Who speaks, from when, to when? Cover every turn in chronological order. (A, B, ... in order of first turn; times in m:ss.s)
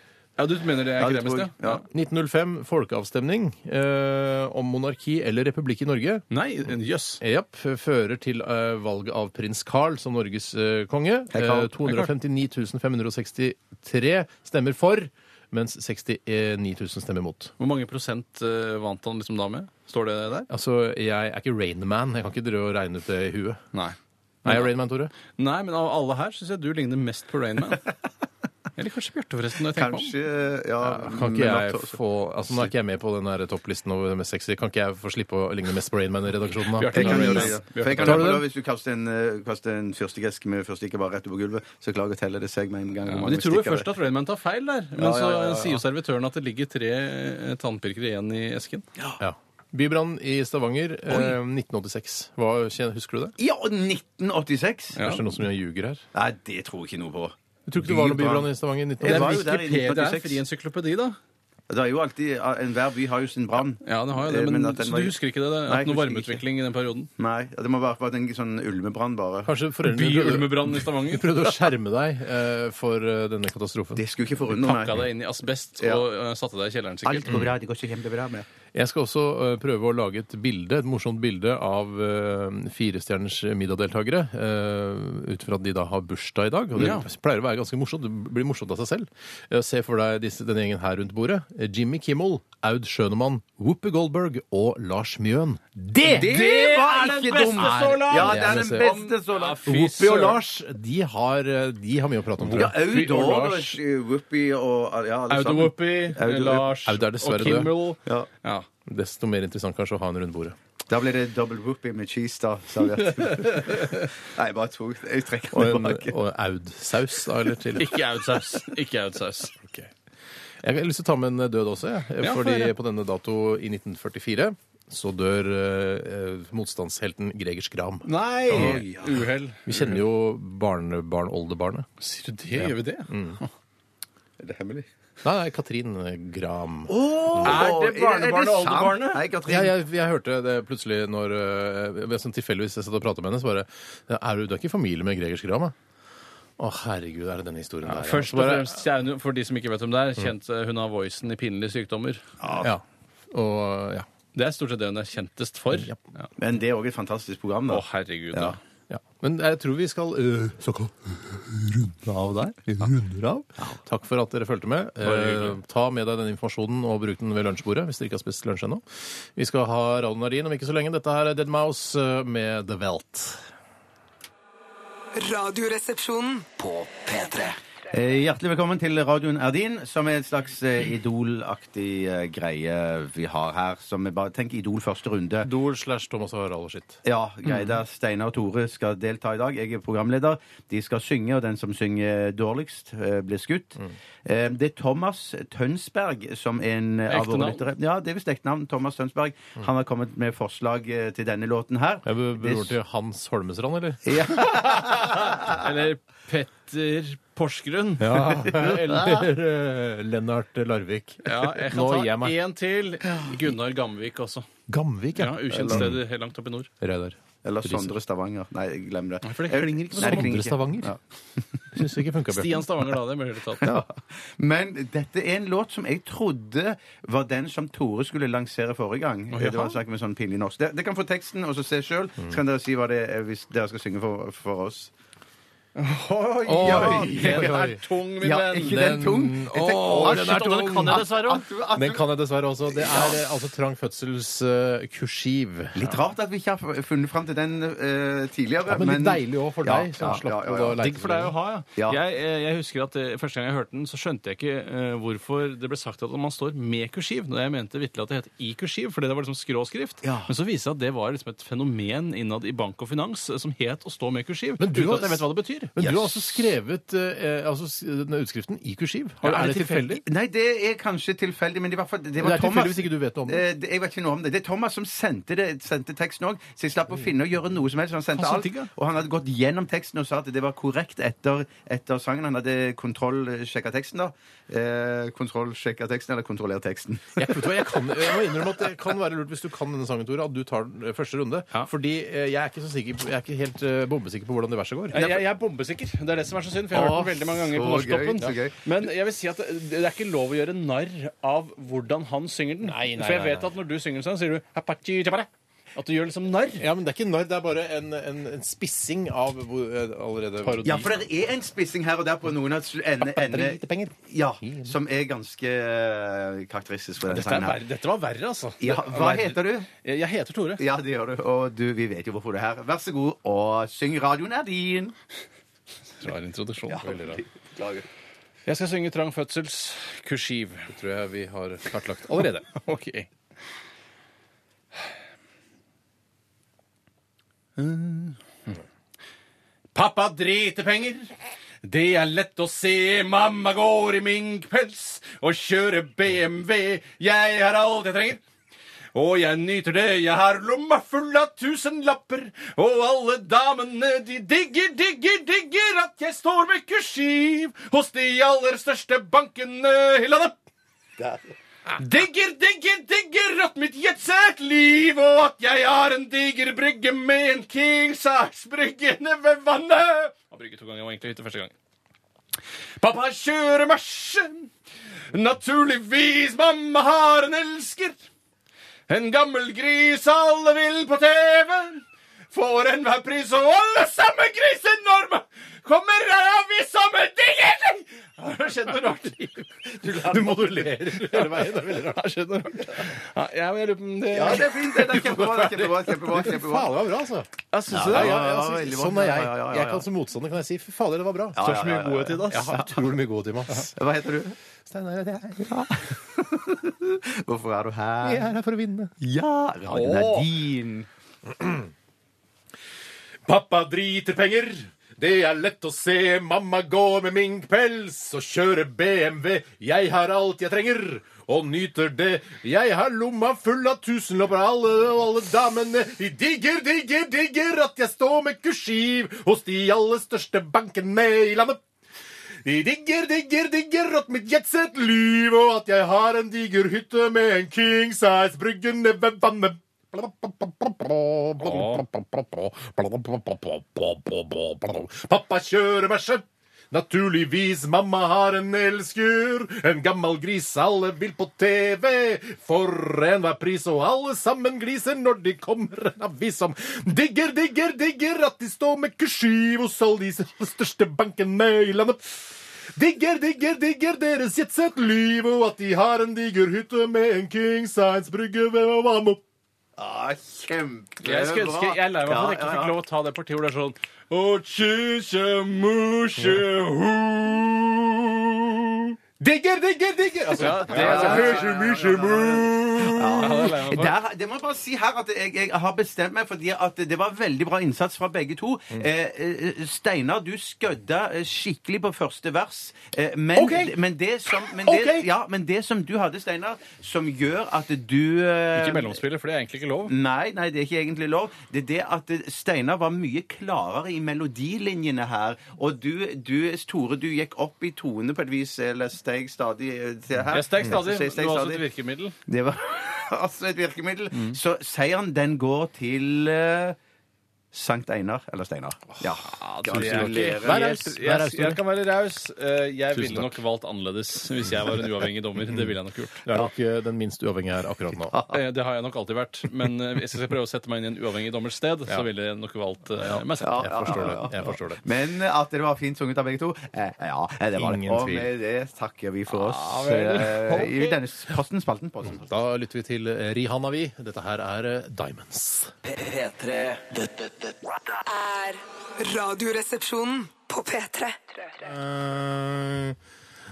0:00.4-0:01.8 A
0:01.0-0:01.8 B
0:01.9-0:06.2 C
0:06.3-0:07.2 A
0:07.2-0:17.5 C
0:11.3-0:11.7 B
0:11.8-0:12.1 A
0:17.6-0:20.5 A
0:20.5-0:23.6 C
0:23.7-0:24.7 A
0:24.4-0:25.1 C
0:25.4-0:27.9 A
0:28.8-0:30.1 A
0:29.7-0:32.7 B
0:30.8-0:38.4 C
0:36.7-0:38.3 A
0:36.9-0:43.9 B
0:43.1-0:48.9 A
0:45.0-0:45.8 B
0:49.2-0:53.4 C
0:53.4-0:55.0 B
0:54.9-0:55.2 A
0:55.0-0:56.0 C
0:56.1-0:58.5 B
0:57.7-0:59.8 C
0:59.0-1:00.4 B
0:59.0-1:01.2 A
1:01.7-1:06.4 B
1:03.8-1:07.1 A
1:07.2-1:09.5 B
1:09.4-1:14.0 C
1:09.8-1:11.5 A
1:14.0-1:15.0 B
1:14.5-1:17.3 A
1:15.8-1:16.0 B
1:17.0-1:18.4 B
1:18.7-1:36.3 C
1:26.8-1:27.1 A
1:36.1-1:40.4 A
1:36.1-1:39.8 B
1:37.5-1:39.0 C
1:39.6-1:42.8 C
1:42.4-1:43.8 A
1:42.4-1:46.7 B
1:45.3-1:48.7 A
1:46.8-1:47.7 C
1:48.8-1:50.6 C
1:50.9-1:56.2 B
1:53.2-1:53.9 A
1:55.5-1:58.1 C
1:57.8-1:59.6 A
1:59.6-1:59.9 C
2:00.6-2:08.8 C
2:02.2-2:02.7 A
2:08.0-2:10.0 A
2:08.5-2:09.2 B
2:09.6-2:11.9 C
2:12.0-2:13.5 A
2:12.6-2:13.4 C
2:14.4-2:14.9 B
2:15.2-2:17.6 C
2:17.0-2:19.7 B
2:17.0-2:19.2 A
2:19.4-2:25.7 C
2:26.6-2:28.8 C
2:27.8-2:32.2 A
2:32.4-2:32.7 B
2:32.6-2:34.1 C
2:34.3-2:36.3 A
2:36.4-2:38.6 B
2:37.7-2:38.6 A
2:38.9-2:42.1 C
2:42.8-2:48.8 C
2:45.0-2:45.6 A
2:49.3-2:53.4 C
2:55.1-2:56.5 D
2:56.6-2:57.6 E
2:57.9-3:05.5 B
3:05.4-3:07.0 C
3:07.0-3:22.8 B
3:17.1-3:17.7 A
3:22.0-3:25.2 C
3:24.0-3:25.6 B
3:25.5-3:28.4 A
3:28.0-3:32.4 C
3:28.5-3:28.8 B
3:31.2-3:34.5 A
3:34.7-3:36.0 C
3:35.1-3:36.7 A
3:35.6-3:35.9 B
3:36.8-3:37.9 C
3:37.4-3:41.0 B
3:39.2-3:40.4 A
3:39.9-3:41.0 C
3:41.7-3:42.8 C
3:42.3-3:43.7 A
3:43.6-3:43.9 C
3:43.6-3:54.9 B
3:49.3-3:49.8 A
3:55.7-3:58.8 A
3:56.5-3:57.8 C
3:56.6-3:57.6 B
3:58.2-4:02.0 B
3:58.6-4:01.1 C
3:59.8-4:01.5 A
4:01.7-4:05.9 C
4:02.7-4:03.2 B
4:05.8-4:10.8 B
4:08.7-4:11.3 C
4:10.8-4:25.7 A
4:20.0-4:20.3 B
4:24.6-4:30.0 C
4:25.8-4:26.4 B
4:29.2-4:30.0 A
4:30.0-4:47.3 B
4:32.2-4:33.4 C
4:38.2-4:38.7 A
4:47.2-4:55.2 C
4:54.9-5:06.6 A
4:56.7-4:58.6 B
5:02.6-5:03.5 C
5:06.6-5:11.0 C
5:10.6-5:17.6 B
5:13.1-5:14.7 C
5:17.0-5:20.6 A
5:18.6-5:19.7 B
5:20.6-5:24.9 B
5:26.0-5:26.9 A
5:26.7-5:27.8 B
5:26.8-5:27.2 C
5:28.4-5:30.7 A
5:30.7-5:32.5 C
5:32.5-5:33.1 A
5:37.6-5:38.2 A
5:39.7-5:41.1 A
5:41.6-5:48.2 A
5:48.9-6:00.4 A
6:01.7-6:11.5 A
6:12.8-6:14.5 A
6:15.1-6:18.0 A
6:18.9-6:30.4 A
6:30.0-6:32.1 C
6:30.9-6:34.8 A
6:34.1-6:36.7 B
6:34.8-6:37.3 C
6:37.5-6:38.2 A
6:37.7-6:39.8 B
6:37.8-6:41.4 C
6:41.4-6:42.8 B
6:41.4-6:42.6 A
6:42.3-6:43.7 C
6:43.6-6:44.4 B
6:44.7-6:45.9 C
6:45.5-6:48.3 B
6:48.0-6:48.9 C
6:49.0-6:50.9 B
6:49.7-6:50.3 A
6:51.3-6:51.7 C
6:53.2-7:11.6 C
7:12.4-7:49.2 C
7:21.4-7:21.8 A
7:49.8-7:52.8 B
7:51.0-7:57.8 A
7:56.2-7:56.4 C
7:59.2-8:03.6 C
8:00.3-8:01.6 A
8:00.6-8:19.0 B
8:03.0-8:03.9 A
8:13.3-8:13.8 C
8:14.6-8:15.0 C
8:18.5-8:19.9 A
8:19.9-8:31.6 B
8:30.3-8:32.1 A
8:32.3-8:36.8 B
8:37.5-8:40.6 B
8:39.2-8:46.3 A
8:39.7-8:41.6 C
8:42.9-8:43.4 C
8:46.2-8:48.2 C
8:48.1-8:48.4 B
8:48.3-8:54.2 A
8:53.0-8:54.8 C
8:53.4-9:02.3 B
8:57.5-8:58.3 C
8:59.3-9:01.0 A
9:02.1-9:05.7 C
9:05.8-9:07.7 E
9:08.0-9:11.6 D
9:11.6-9:13.0 C